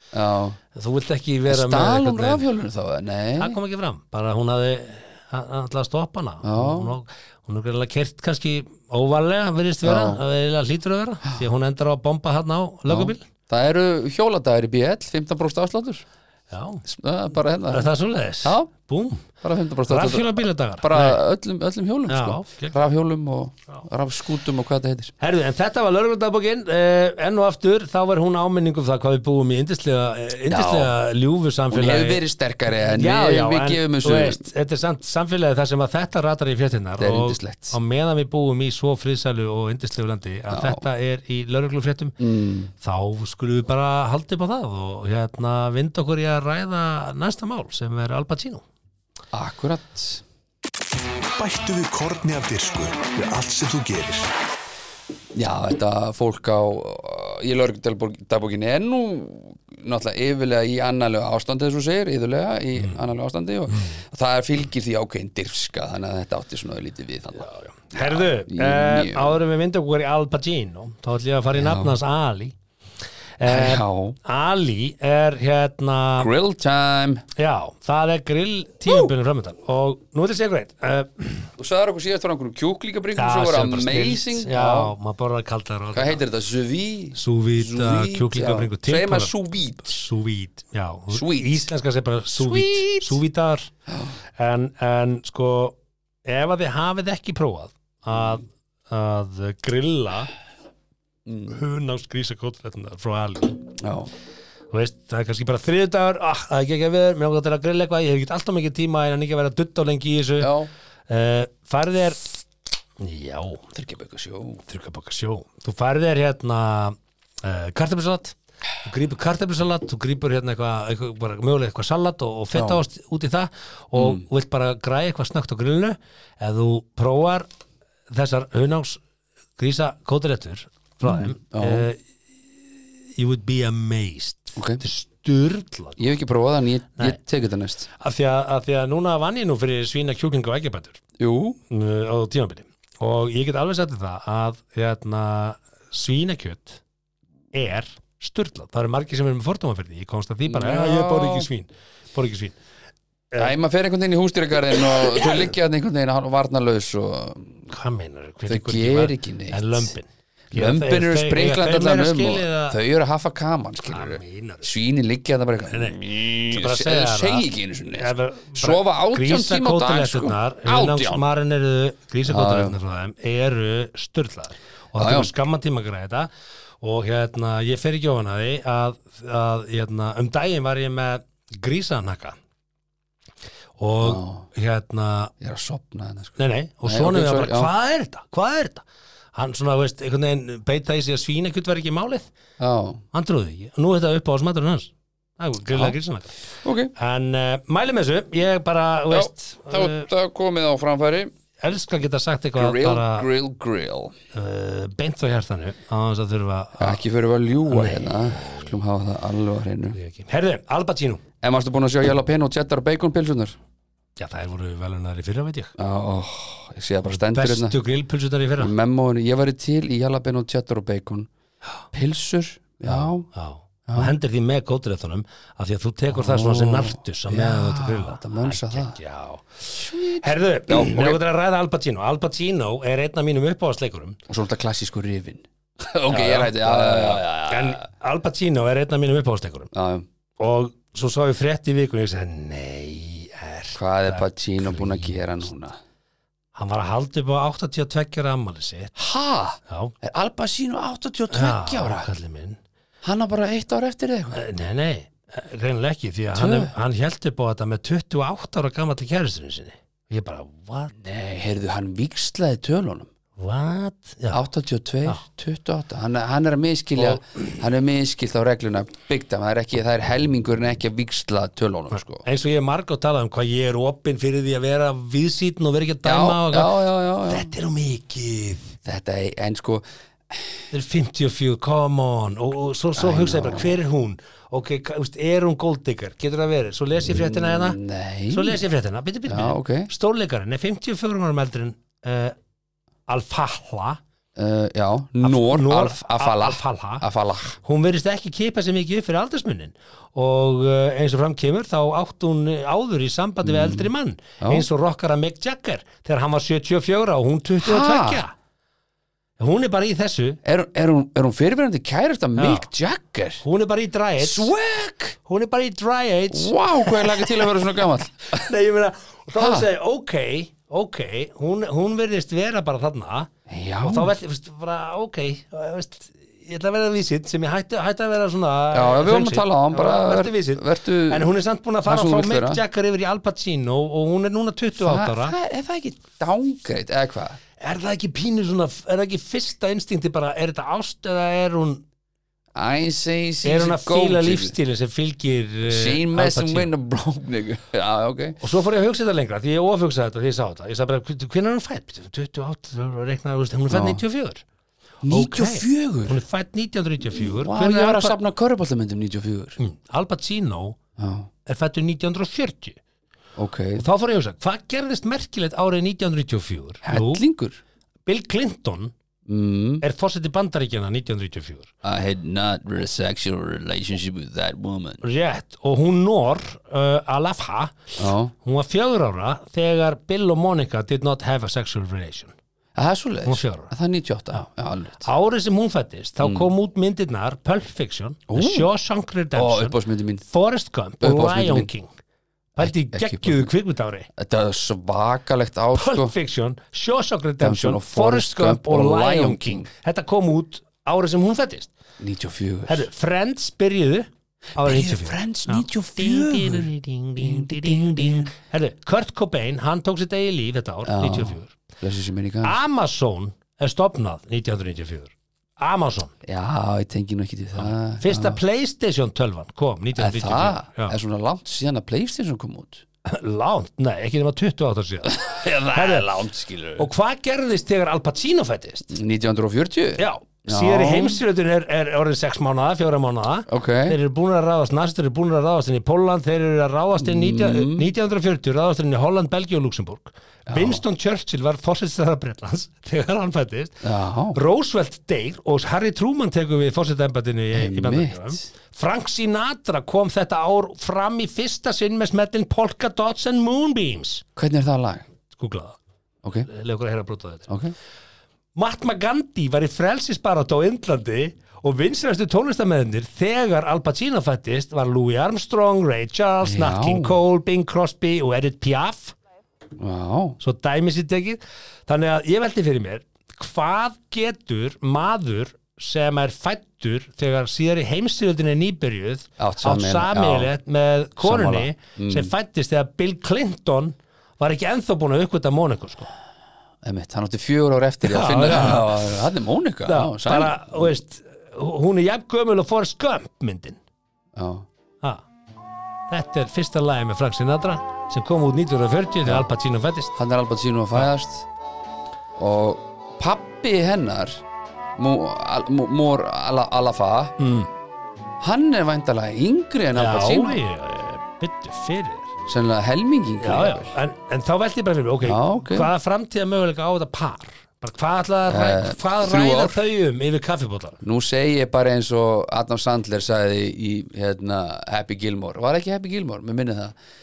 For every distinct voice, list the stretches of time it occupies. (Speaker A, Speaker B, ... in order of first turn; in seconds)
Speaker A: 0.1-0.6, 1.5-3.6, 6.4-7.0, 9.8-10.2, 12.9-16.1, 16.9-17.9, 18.4-18.7, 19.4-25.1, 30.5-30.9, 31.7-34.4, 37.0-37.8, 40.5-40.8, 42.2-42.7, 49.3-50.2, 55.4-69.4, 71.5-72.0, 73.5-74.2, 76.2-77.2, 81.6-84.9, 85.9-90.0, 91.1-91.7, 92.4-93.2, 93.9-94.2, 101.3-101.5, 103.8-104.1, 110.4-110.7, 113.7-114.6, 122.5-122.8, 124.0-124.2, 131.0-131.9, 134.6-134.8, 136.0-137.9, 141.2-141.6, 150.5-151.5, 153.4-157.7, 158.5-159.9, 160.5-171.2, 172.3-172.8, 175.0-175.3, 184.0-184.5, 185.4-187.7, 192.6-193.0, 196.6-196.9, 199.1-201.3, 202.6-204.2, 206.8-210.0, 211.4-213.6, 215.8-217.8, 218.6-221.3, 221.9-223.3, 223.9-224.1, 226.1-229.0, 229.7-231.2, 234.3-237.8, 239.7-240.1, 243.8-245.8, 249.0-252.1, 253.0-254.4, 256.4-256.7, 260.9-263.1, 264.3-272.2, 276.1-277.5, 278.9-280.6, 283.0-283.8, 287.1-288.6, 289.3-289.9, 294.4-297.6, 303.4-303.9, 304.4-304.7, 307.6-308.2, 310.4-313.4, 314.2-315.2, 316.3-318.5, 319.4-319.7, 323.5-324.2, 328.7-331.3, 331.9-332.6, 334.8-337.4, 342.6-344.6, 345.7-348.4, 353.7-354.0, 355.0-356.2, 357.1-359.6, 361.0-361.3, 363.4-363.9, 366.8-367.6, 369.3-369.8, 371.8-375.0, 378.0-378.3, 382.8-385.1, 386.2-386.5, 388.3-388.7, 389.3-390.2, 391.0-391.7, 392.6-393.5, 394.2-396.1, 397.4-399.7, 402.0-402.9, 404.6-408.3, 410.9-412.6, 416.2-418.4, 420.0-422.8, 425.1-426.9, 428.9-431.2, 433.5-434.0, 437.0-437.9, 440.5-440.8, 443.8-444.4, 447.5-448.4, 454.4-455.1, 457.5-457.8, 466.4-467.2, 469.8-470.4, 479.4-480.5, 481.2-482.3, 486.8-490.9, 494.4-494.7, 500.2-501.5, 502.4-504.4, 505.0-507.4, 508.4-510.6, 512.5-514.0, 515.2-515.9, 518.5-519.8, 521.0-527.0
Speaker B: 0.7-2.5, 3.4-13.2, 16.5-16.8, 17.7-19.3, 19.9-21.2, 22.1-22.8, 25.2-32.2, 32.8-42.2, 42.8-48.6, 67.4-72.6, 73.4-76.3, 77.4-81.5, 83.2-86.2, 87.2-89.3, 89.9-93.7, 94.4-100.3, 101.5-103.7, 104.7-110.5, 111.1-112.3, 113.0-113.7, 114.7-127.5, 128.1-129.0, 129.6-132.0, 132.7-136.0, 137.9-141.0, 141.7-146.8, 147.5-152.6, 157.7-162.8, 163.9-164.7, 165.7-176.3, 176.8-182.4, 183.8-185.3, 186.4-192.3, 193.1-200.1, 201.6-203.3, 204.3-207.0, 207.7-208.7, 209.9-211.2, 214.2-215.7, 217.1-218.7, 222.8-234.2, 236.1-239.7, 240.4-245.2, 246.6-248.9, 249.7-249.9, 251.3-252.6, 254.3-261.0, 263.4-264.4, 267.0-267.6, 272.2-278.8, 280.7-287.8, 288.3-292.4, 293.1-294.0, 295.2-308.3, 309.4-310.4, 312.4-312.7, 313.4-314.5, 315.2-317.5, 318.3-323.3, 323.8-335.4, 337.6-341.8, 343.4-346.7, 348.4-354.4, 355.1-358.2, 359.6-360.8, 361.5-362.8, 363.8-367.2, 368.1-368.9, 369.8-371.7, 375.0-382.4, 383.2-383.7, 385.0-391.9, 392.6-394.1, 395.7-401.7, 402.7-411.6, 412.4-416.1, 417.6-421.0, 423.1-426.1, 426.8-428.9, 430.0-454.2, 455.3-455.8, 456.5-457.5, 458.6-469.1, 470.4-486.1, 488.0-489.1, 489.9-493.8, 496.1-500.2, 507.4-507.7, 509.9-512.3, 513.4-521.0
Speaker C: 51.4-54.3